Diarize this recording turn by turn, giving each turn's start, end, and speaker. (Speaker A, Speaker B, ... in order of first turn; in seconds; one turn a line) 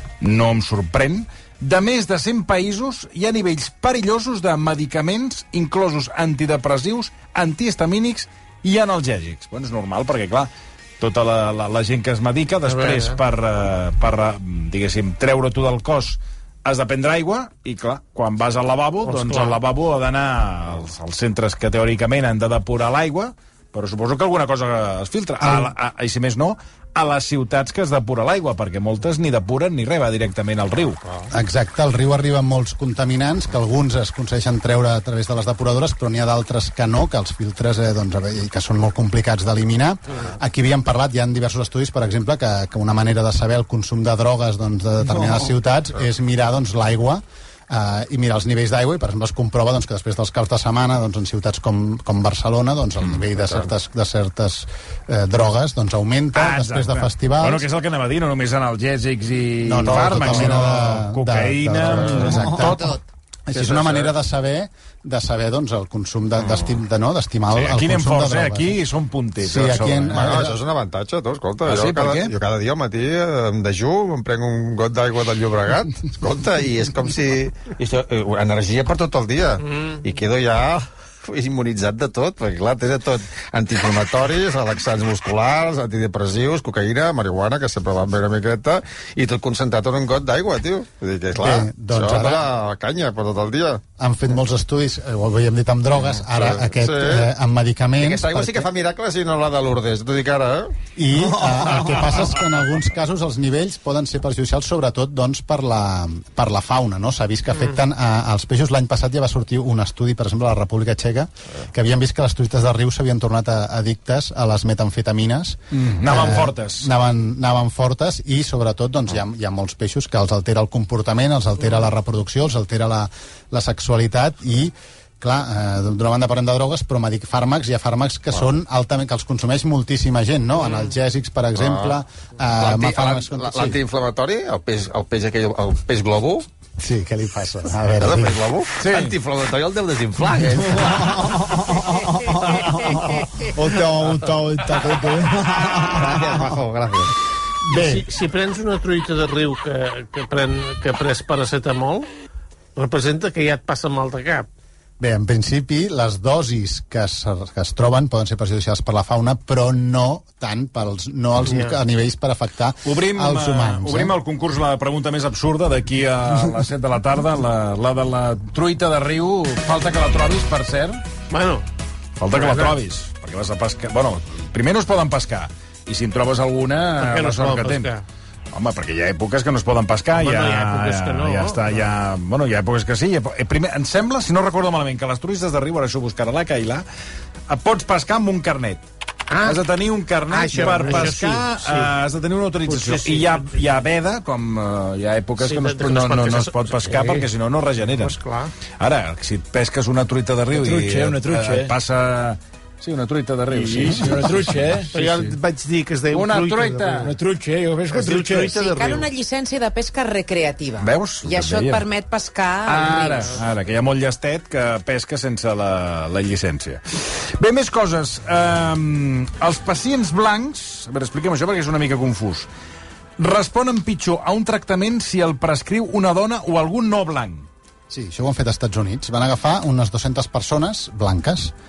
Speaker A: 0.2-31.0
Speaker B: 12.7-13.2
Speaker B: 19.1-19.6
Speaker C: 25.4-25.7
Speaker C: 31.3-57.6
Speaker A: 56.3-62.9
Speaker C: 59.6-68.8
Speaker D: 62.1-62.5
Speaker D: 63.5-64.1
Speaker A: 67.5-70.4
Speaker C: 69.4-70.6
Speaker D: 70.1-93.8
Speaker A: 71.6-72.3
Speaker C: 91.3-92.5
Speaker C: 94.0-98.7
Speaker D: 96.3-97.3
Speaker D: 98.0-100.7
Speaker C: 101.0-133.8
Speaker A: 115.7-116.9
Speaker D: 131.6-132.0
Speaker D: 132.6-136.5
Speaker C: 136.8-138.4
Speaker D: 138.0-143.4
Speaker A: 138.8-139.2
Speaker C: 140.8-141.2
Speaker C: 142.3-146.4
Speaker D: 145.4-147.1
Speaker C: 147.7-148.1
Speaker B: 147.7-152.1
Speaker B: 152.8-154.5
Speaker C: 155.0-164.2
Speaker B: 161.4-161.8
Speaker A: 162.8-171.0
Speaker B: 171.3-171.7
Speaker A: 172.2-177.9
Speaker B: 172.3-172.8
Speaker B: 177.0-178.0
Speaker A: 178.5-186.8
Speaker B: 180.1-181.8
Speaker A: 187.5-188.8
Speaker B: 189.3-189.6
Speaker A: 189.4-198.2
Speaker B: 190.3-191.9
Speaker B: 192.7-193.6
Speaker B: 195.4-197.3
Speaker B: 198.0-198.5
Speaker A: 198.8-205.3
Speaker E: 200.5-201.7
Speaker E: 203.5-204.9
Speaker B: 204.9-207.1
Speaker A: 206.1-207.1
Speaker E: 207.0-208.6
Speaker B: 207.9-209.1
Speaker F: 208.4-213.4
Speaker A: 210.8-211.8
Speaker A: 212.6-222.5
Speaker A: 223.2-227.5
Speaker C: 227.9-231.5